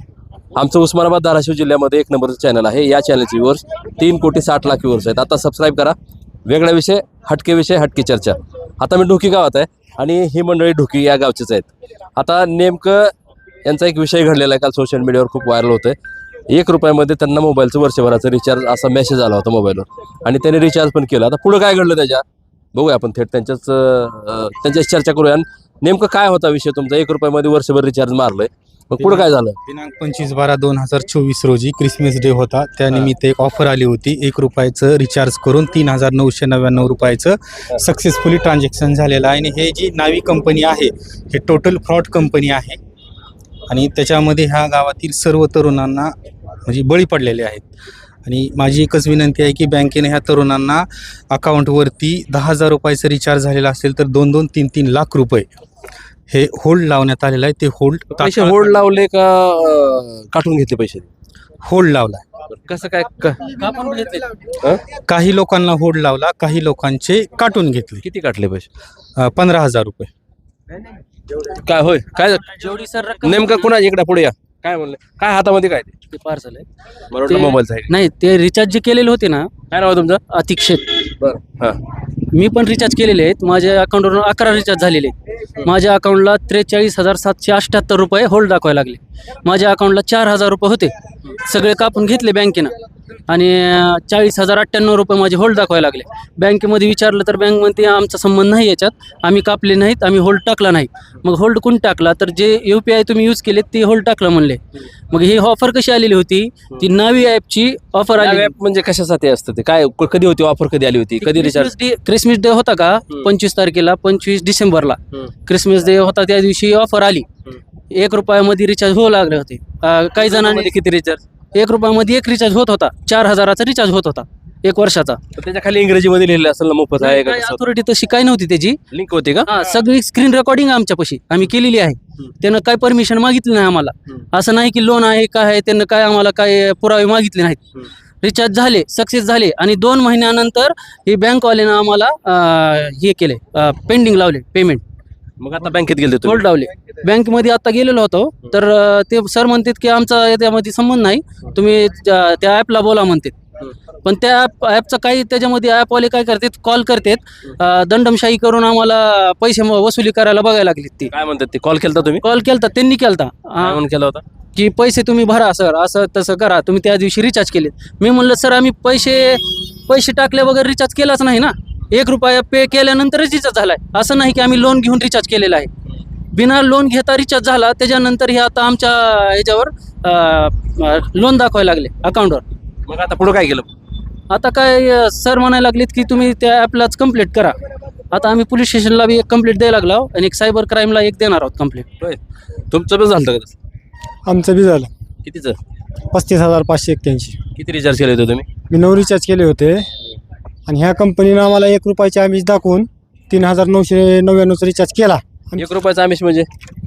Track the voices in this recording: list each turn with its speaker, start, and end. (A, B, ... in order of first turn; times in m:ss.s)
0:00.6-0:13.1 A
0:13.6-0:16.0 A
0:16.5-0:29.6 A
0:29.0-0:42.8 B
0:43.7-0:46.1 B
0:46.7-0:47.7 B
0:48.3-0:55.5 B
0:56.3-0:58.8 B
0:58.1-1:01.1 A
1:01.6-1:02.2 B
1:02.5-1:04.8 A
1:03.5-1:04.2 C
1:05.0-1:08.0 B
1:08.0-1:08.7 A
1:09.2-1:10.1 B
1:11.3-1:12.7 A
1:12.5-1:13.7 C
1:13.2-1:15.9 A
1:16.1-1:16.6 C
1:17.1-1:17.9 A
1:17.2-1:19.5 C
1:19.7-1:20.2 A
1:20.3-1:21.0 C
1:21.2-1:21.8 A
1:22.3-1:32.7 C
1:33.3-1:44.6 C
1:45.1-1:48.5 C
1:48.2-1:51.7 A
1:51.2-1:57.3 C
1:57.9-2:00.7 C
2:00.2-2:01.2 A
2:01.5-2:05.2 C
2:05.4-2:07.6 A
2:07.0-2:08.8 C
2:08.9-2:09.5 A
2:09.5-2:17.6 C
2:18.2-2:24.8 C
2:25.4-2:26.5 A
2:26.2-2:41.1 C
2:41.1-2:42.2 A
2:42.2-2:43.8 C
2:43.6-2:44.2 A
2:44.6-2:55.7 C
2:56.3-3:02.4 C
3:02.9-3:03.7 A
3:04.3-3:07.6 C
3:08.1-3:11.9 C
3:12.7-3:13.6 A
3:14.3-3:14.9 D
3:15.2-3:15.6 A
3:16.1-3:17.4 D
3:17.6-3:18.5 A
3:18.7-3:19.8 D
3:20.7-3:25.6 D
3:25.6-3:26.5 A